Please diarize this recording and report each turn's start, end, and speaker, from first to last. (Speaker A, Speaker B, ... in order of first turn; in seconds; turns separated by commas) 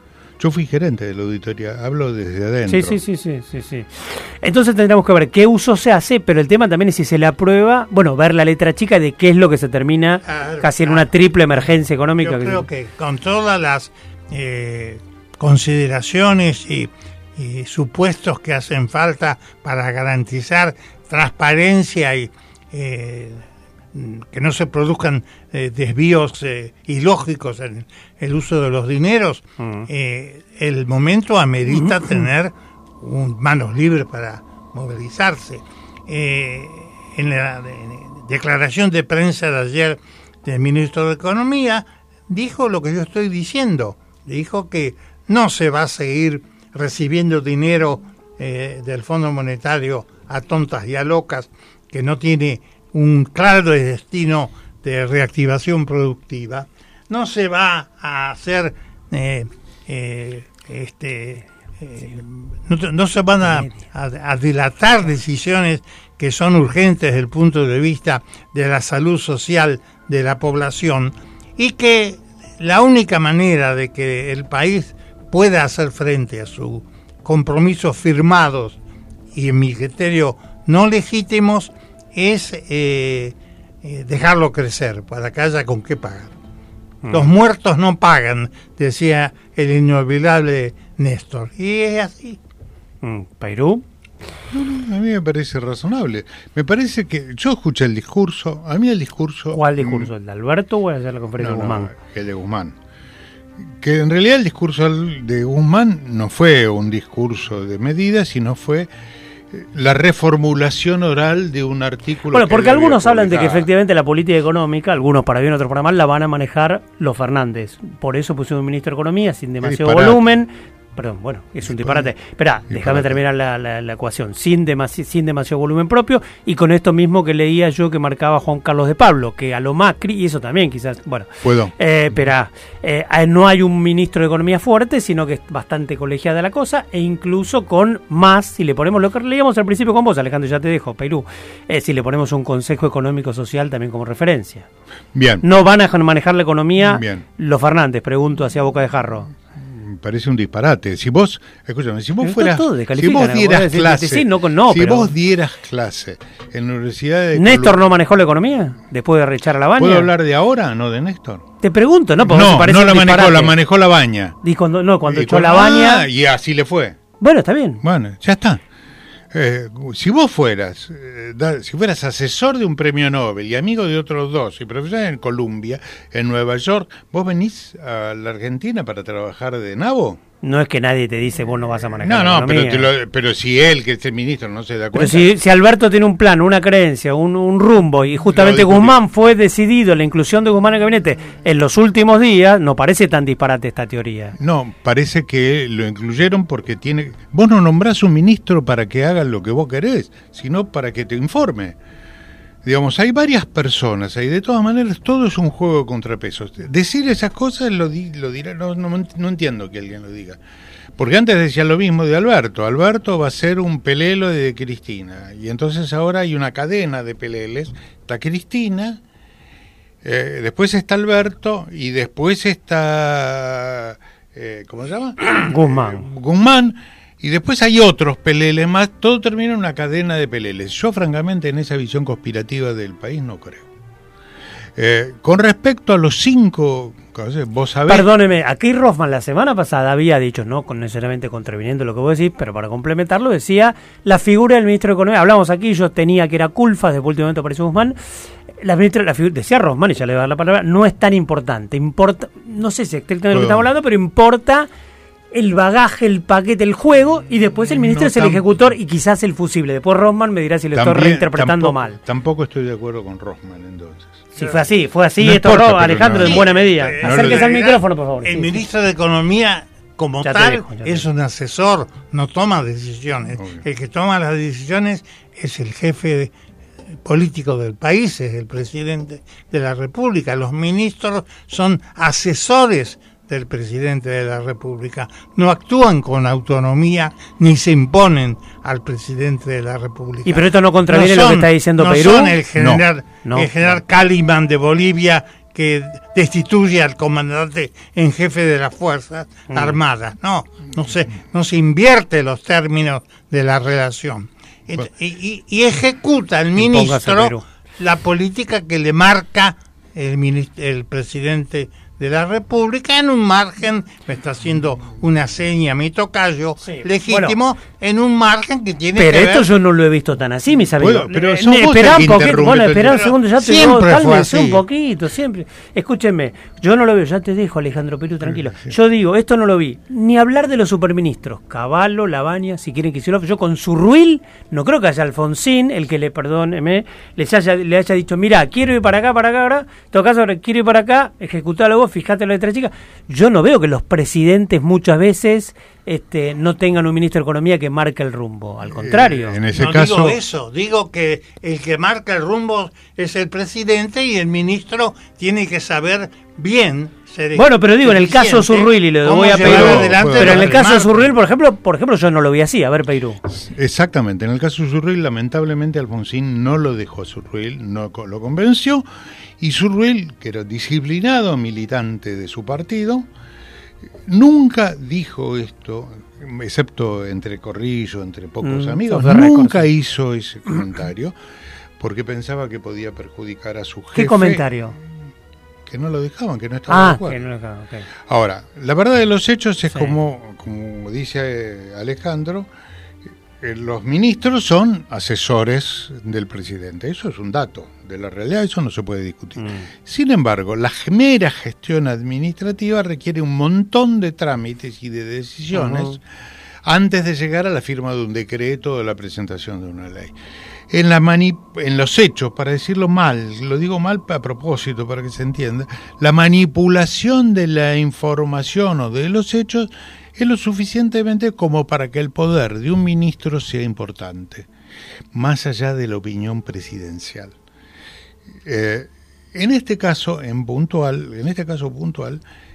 Speaker A: 0.4-3.0, Speaker B: 2.7-12.6, Speaker C: 10.3-78.8, Speaker B: 29.6-29.9, Speaker B: 31.7-32.2, Speaker B: 63.5-63.8, Speaker C: 79.3-86.3, Speaker B: 87.0-87.3, Speaker C: 87.1-92.4, Speaker B: 93.0-93.8, Speaker A: 94.5-100.1, Speaker B: 99.5-101.9, Speaker A: 101.4-102.8, Speaker A: 103.6-108.9, Speaker A: 109.5-113.7, Speaker B: 112.3-144.7, Speaker A: 119.6-120.2, Speaker A: 121.7-122.1, Speaker A: 122.7-123.2, Speaker A: 131.4-131.7, Speaker A: 145.1-145.4, Speaker B: 145.4-149.3, Speaker A: 146.8-147.2, Speaker A: 149.6-157.8, Speaker B: 152.2-155.1, Speaker B: 157.4-160.1, Speaker A: 159.8-161.4, Speaker B: 161.6-163.6, Speaker A: 162.2-164.4, Speaker B: 164.4-166.1, Speaker A: 165.1-167.0, Speaker B: 167.2-167.8, Speaker A: 167.8-168.6, Speaker A: 169.3-180.2, Speaker B: 180.4-182.9, Speaker A: 182.0-185.3, Speaker B: 184.9-194.3, Speaker A: 188.3-189.0, Speaker A: 194.4-201.8, Speaker A: 202.6-210.4, Speaker A: 211.0-219.0, Speaker A: 220.0-233.7, Speaker B: 225.3-226.1, Speaker A: 234.8-238.1, Speaker B: 237.9-248.0, Speaker B: 248.6-254.7, Speaker A: 253.3-253.7, Speaker B: 255.3-262.0, Speaker A: 257.6-258.5, Speaker A: 260.7-264.3, Speaker B: 264.4-268.6, Speaker A: 265.2-267.6, Speaker C: 266.2-276.3, Speaker B: 270.2-271.0, Speaker A: 273.4-273.6, Speaker C: 277.0-319.5, Speaker B: 290.2-292.4, Speaker A: 292.6-292.9, Speaker B: 293.2-293.5, Speaker B: 299.5-299.8, Speaker B: 306.6-307.4, Speaker B: 316.6-317.4, Speaker B: 318.9-349.4, Speaker A: 320.8-323.1, Speaker C: 322.9-324.6, Speaker A: 328.2-328.8, Speaker A: 348.6-350.2, Speaker C: 349.5-361.1, Speaker B: 357.4-363.2, Speaker A: 359.4-360.6, Speaker A: 363.3-368.9, Speaker A: 369.4-373.1, Speaker A: 374.0-381.1, Speaker B: 378.4-379.7, Speaker A: 381.8-384.8, Speaker B: 383.9-384.8, Speaker A: 385.7-387.2, Speaker B: 386.7-387.9, Speaker A: 388.0-392.5, Speaker A: 393.4-406.0, Speaker B: 399.4-399.7, Speaker B: 405.5-406.0, Speaker A: 406.6-410.2, Speaker A: 410.7-424.5, Speaker A: 425.1-427.4, Speaker A: 428.4-432.2